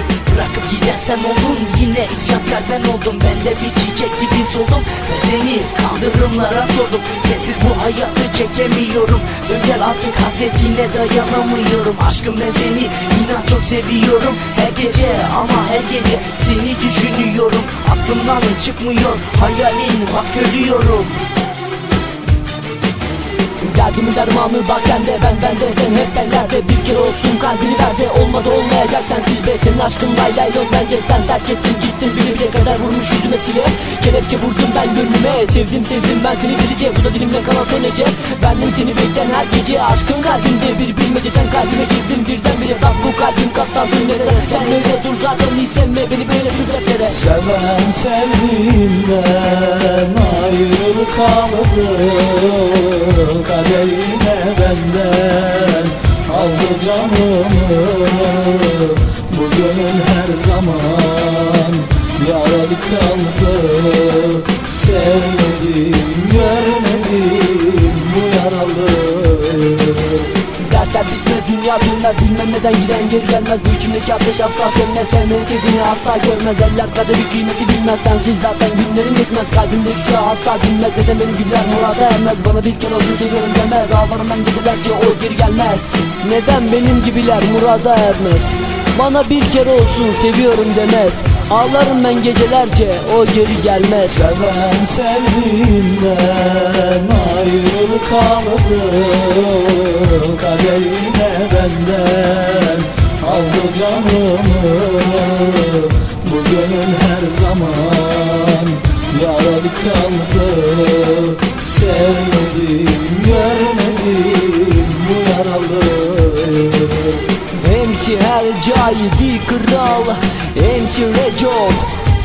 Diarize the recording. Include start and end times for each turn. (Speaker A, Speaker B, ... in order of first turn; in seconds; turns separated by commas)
Speaker A: 0.2-21.2, Speaker B: 23.6-47.2, Speaker C: 47.1-70.3, Speaker B: 70.6-94.2, Speaker C: 94.1-117.3, Speaker B: 117.5-121.9